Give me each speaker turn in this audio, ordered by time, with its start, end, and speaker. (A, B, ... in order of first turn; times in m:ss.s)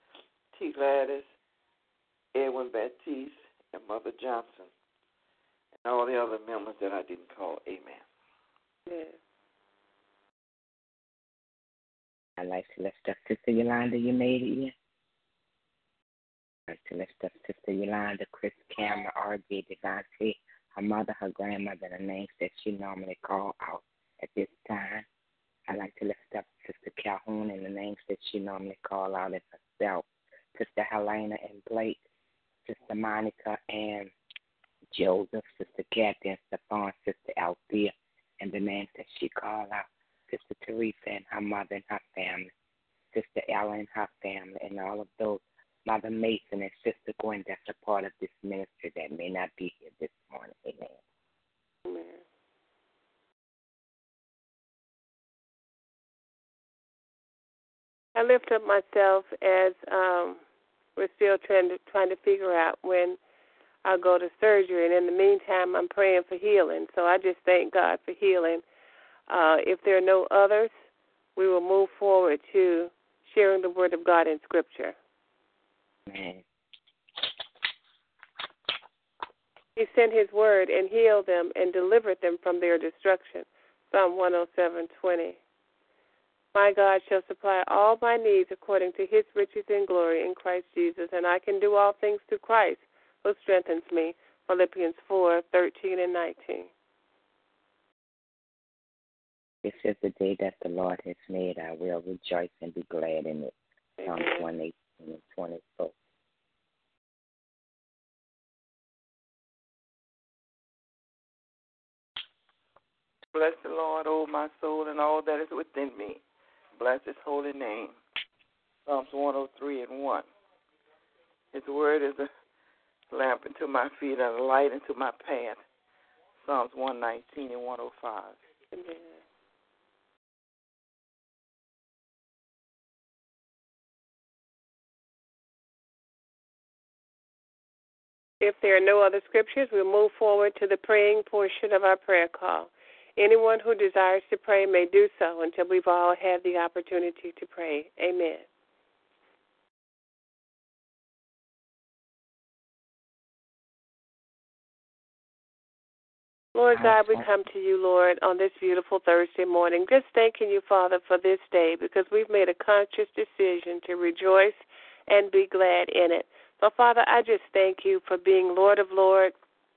0:00.5-0:01.3 A
0:02.4-0:04.7 A
0:05.8-0:08.0 A
0:08.9-0:09.2 B
0:12.4-0:14.7 C
0:16.7-0:25.1 C
0:25.7-0:32.0 C
0:32.6-0:34.1 C
0:34.9-0:42.5 C
0:43.1-0:51.0 C
0:51.8-0:52.2 B
0:58.2-1:00.4 B
1:01.0-1:03.2 B
1:03.8-1:08.6 B
1:09.3-1:10.7 B
1:11.4-1:15.0 B
1:16.1-1:16.4 C
1:19.8-1:25.4 B
1:26.5-1:36.7 B
1:39.6-1:46.0 C
1:44.0-1:44.4 B
1:53.3-1:56.2 A
1:56.8-1:58.0 A
1:58.9-2:00.3 A
2:01.5-2:02.3 A
2:03.1-2:05.6 A
2:06.4-2:08.4 A
2:08.7-2:09.2 B
2:18.4-2:28.4 B
2:36.6-2:49.3 B
2:36.8-2:37.2 C